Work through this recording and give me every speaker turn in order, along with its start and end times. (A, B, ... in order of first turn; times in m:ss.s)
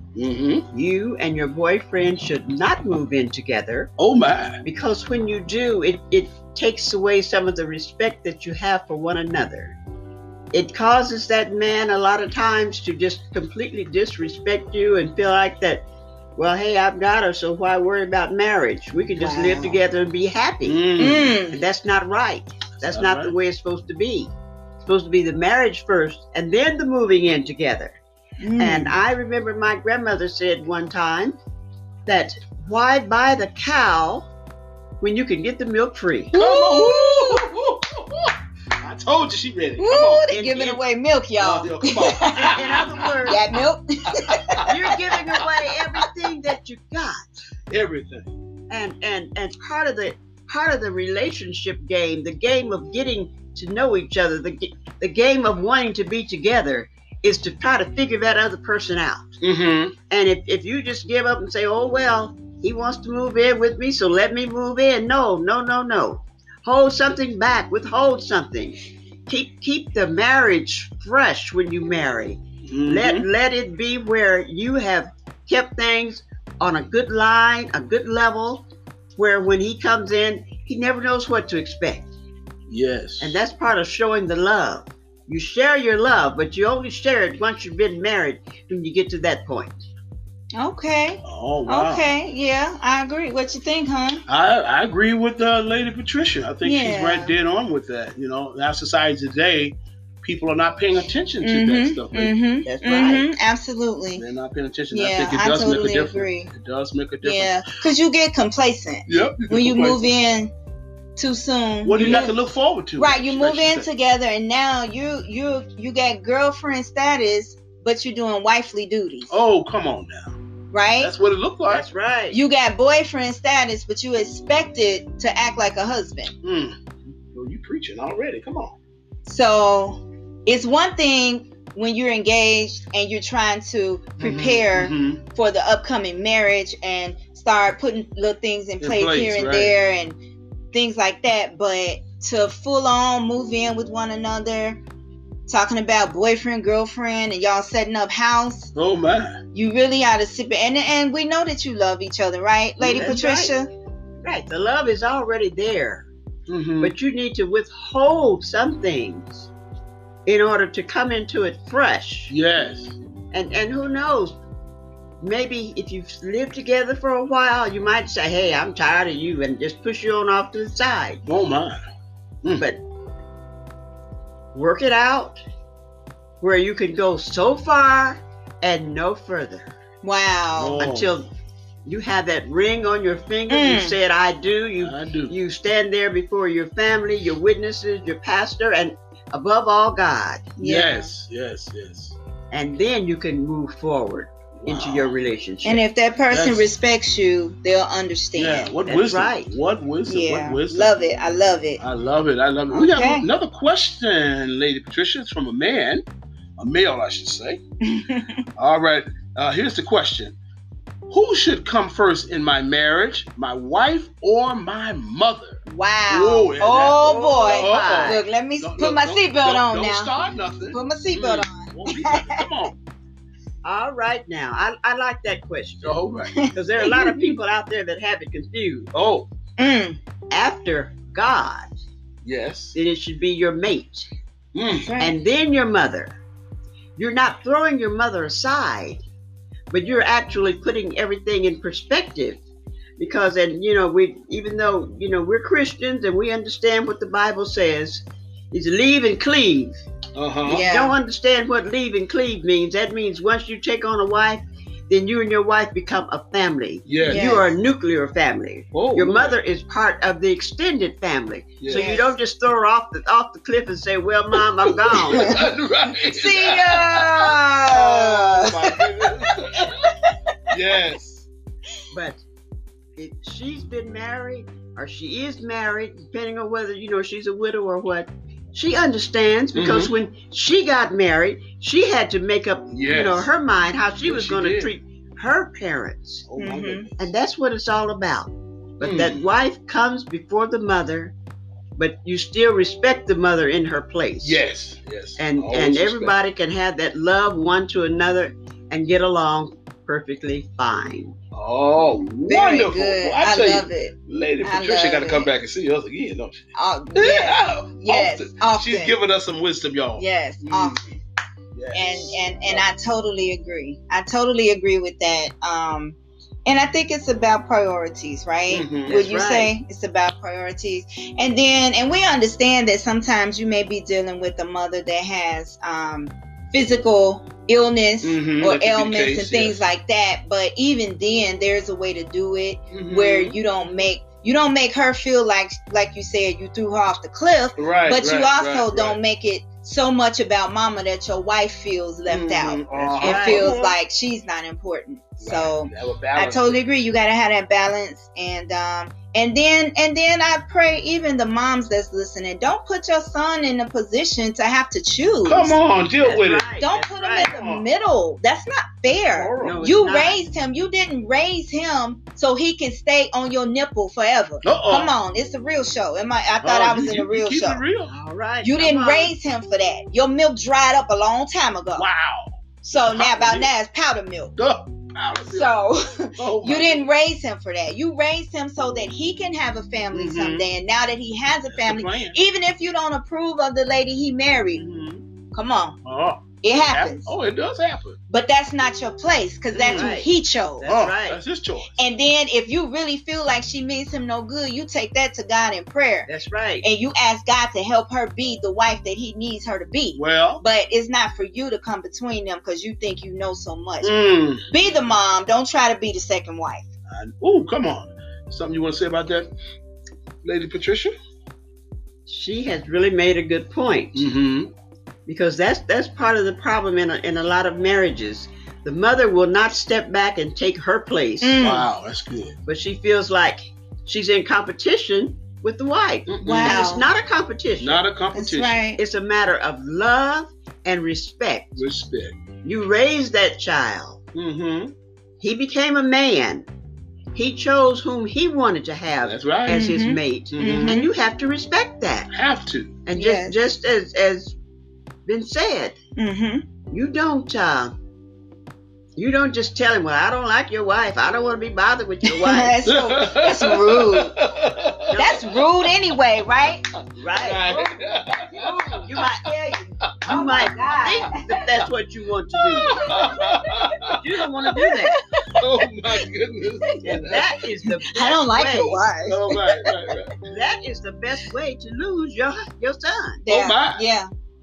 0:00.1-0:00.6 A
0:00.7-0:03.9 B
0:04.0-0:04.6 A
0:04.6-0:09.8 B
0:10.5-0:15.8 B
0:16.4-0:24.3 B
0:19.2-0:19.8 C
0:20.6-0:21.3 A
0:21.0-0:21.6 C
0:22.8-0:23.3 A
0:24.8-0:28.0 B
0:28.4-0:29.0 C
0:28.6-0:31.4 B
0:32.0-0:34.3 B
0:35.0-0:36.3 B
0:36.3-0:37.4 C
0:36.3-0:40.5 A
0:39.8-0:42.6 C
0:40.3-0:40.8 B
0:41.4-0:43.3 A
0:42.4-0:43.4 B
0:43.2-0:45.2 C
0:44.2-0:45.5 A
0:44.7-0:47.3 B
0:47.7-0:48.3 A
0:48.7-0:59.4 B
0:59.4-0:59.9 A
1:00.1-1:22.1 B
1:12.6-1:13.2 A
1:22.7-1:23.3 A
1:23.2-1:29.7 B
1:30.6-1:34.2 C
1:31.2-1:32.1 A
1:34.3-1:42.3 A
1:36.6-1:37.3 C
1:41.4-1:44.2 C
1:42.6-1:43.3 B
1:44.2-1:47.8 A
1:44.9-1:46.5 C
1:47.2-1:50.5 C
1:49.1-1:50.1 A
1:51.2-1:52.4 C
1:51.8-1:53.9 A
1:52.0-1:52.2 B
1:53.0-1:59.4 C
1:59.3-2:00.4 A
2:00.7-2:01.1 C
2:01.0-2:01.8 A
2:01.7-2:02.4 B
2:02.3-2:06.3 C
2:06.4-2:06.8 A
2:07.3-2:08.7 A
2:09.2-2:20.2 C
2:14.2-2:15.2 A
2:18.8-2:19.7 A
2:20.7-2:24.8 C
2:25.5-2:28.7 C
2:28.7-2:29.4 A
2:29.5-2:33.7 C
2:32.8-2:33.5 B
2:34.2-2:36.1 B
2:36.5-2:36.9 A
2:36.8-2:39.5 B
2:40.2-2:42.3 B
2:42.3-2:42.9 A
2:43.3-2:44.4 B
2:45.2-2:51.2 B
2:51.2-2:51.8 A
2:52.5-2:52.8 B
2:54.5-2:55.4 B
2:56.4-2:59.7 B
3:00.0-3:00.8 C
3:00.6-3:01.2 A
3:00.8-3:01.3 B
3:01.8-3:10.5 B
3:03.5-3:04.0 C
3:04.8-3:05.3 A
3:10.6-3:11.1 C
3:10.6-3:12.2 A
3:12.5-3:15.8 B
3:14.6-3:15.1 A
3:15.6-3:18.7 C
3:16.3-3:16.7 A
3:18.4-3:21.0 A
3:18.8-3:19.5 B
3:20.1-3:21.8 C
3:21.8-3:26.0 A
3:22.7-3:23.3 C
3:26.6-3:27.6 A
3:27.8-3:28.5 C
3:28.6-3:30.4 A
3:31.1-3:42.8 A
3:35.6-3:40.1 C
3:37.0-3:38.2 B
3:40.7-3:42.7 C
3:43.6-3:48.9 B
3:45.8-3:46.3 A
3:46.3-3:47.4 C
3:48.9-3:49.2 A
3:49.6-3:50.0 C
3:50.3-3:51.7 B
3:52.2-3:52.8 A
3:52.7-3:54.1 B
3:54.5-3:54.9 A
3:54.7-3:55.2 C
3:55.0-3:56.2 B
3:57.0-3:59.0 B
3:59.7-4:02.4 B
4:03.0-4:09.8 B
4:10.1-4:10.6 A
4:10.4-4:25.4 B
4:10.5-4:11.0 C
4:16.9-4:17.4 A
4:17.0-4:17.5 C
4:18.7-4:19.4 A
4:21.6-4:21.9 A
4:21.7-4:22.1 C
4:24.4-4:29.9 A
4:25.1-4:25.4 C
4:26.0-4:30.2 C
4:30.5-4:31.2 A
4:31.9-4:32.2 B
4:33.0-4:46.3 B
4:39.5-4:39.9 A
4:42.7-4:43.3 A
4:44.0-4:44.7 A
4:46.3-4:47.1 A
4:46.4-4:46.8 C
4:47.0-4:51.1 B
4:48.8-4:49.2 A
4:51.8-4:54.4 B
4:54.2-4:56.1 A
4:55.2-5:01.2 B
5:01.3-5:10.9 A
5:02.3-5:05.3 C
5:06.5-5:08.9 C
5:10.0-5:10.9 C
5:11.5-5:12.6 A
5:11.7-5:55.6 C
5:18.5-5:19.0 A
5:18.9-5:19.5 B
5:28.0-5:29.6 A
5:32.7-5:33.4 A
5:37.6-5:39.0 A
5:42.1-5:43.6 A
5:43.0-5:43.7 B
5:45.2-5:46.6 A
5:55.2-5:56.4 A
5:56.0-5:57.4 B
5:56.6-6:07.6 C
5:57.4-5:57.6 A
5:58.9-5:59.6 A
5:59.4-6:00.2 B
6:04.4-6:04.9 A
6:06.4-6:07.9 A
6:07.9-6:09.1 B
6:08.4-6:11.8 C
6:11.8-6:13.5 A
6:12.6-6:14.3 C
6:14.4-6:15.6 A
6:15.3-6:24.6 C
6:16.2-6:16.8 A
6:19.9-6:20.4 A
6:21.5-6:22.2 A
6:24.6-6:25.0 A
6:25.3-6:25.8 C
6:25.8-6:28.0 A
6:26.4-6:27.1 C
6:28.1-6:30.7 C
6:29.5-6:30.0 A
6:29.7-6:31.2 B
6:30.6-6:31.7 A
6:31.8-6:36.1 C
6:36.1-6:36.6 B
6:36.6-6:43.9 C
6:40.0-6:40.4 A
6:43.8-6:44.4 A
6:44.4-6:46.6 C
6:46.9-6:49.3 A
6:50.2-6:50.9 A
6:52.1-6:54.0 B
6:53.9-6:54.5 A
6:55.1-7:01.4 B
7:01.2-7:01.7 C
7:01.4-7:02.4 A
7:02.4-7:07.8 B
7:06.1-7:06.7 A
7:06.2-7:06.9 C
7:07.6-7:08.6 A
7:08.1-7:08.8 C
7:08.8-7:11.6 B
7:11.6-7:12.1 A
7:12.4-7:14.0 B
7:14.1-7:14.7 A
7:15.2-7:16.5 B
7:17.1-7:22.1 B
7:19.0-7:19.6 A
7:19.5-7:20.9 C
7:20.3-7:20.8 A
7:22.1-7:22.8 A
7:22.8-7:24.4 B
7:22.9-7:23.4 C
7:25.0-7:25.8 B
7:26.0-7:26.4 C
7:26.7-7:27.7 B
7:29.0-7:32.6 B
7:32.0-7:34.2 C
7:32.6-7:35.4 A
7:34.9-7:35.4 B
7:34.9-7:36.6 C
7:37.0-7:43.1 B
7:37.1-7:39.0 A
7:40.0-7:41.4 C
7:42.5-7:44.6 A
7:42.6-7:43.4 C
7:43.9-7:44.9 B
7:44.5-7:45.4 C
7:45.3-7:47.3 A
7:46.6-7:47.0 C
7:46.8-7:48.8 B
7:47.9-7:49.7 C
7:49.1-7:50.1 A
7:50.3-7:53.2 B
7:53.2-7:54.1 C
7:53.3-7:53.8 A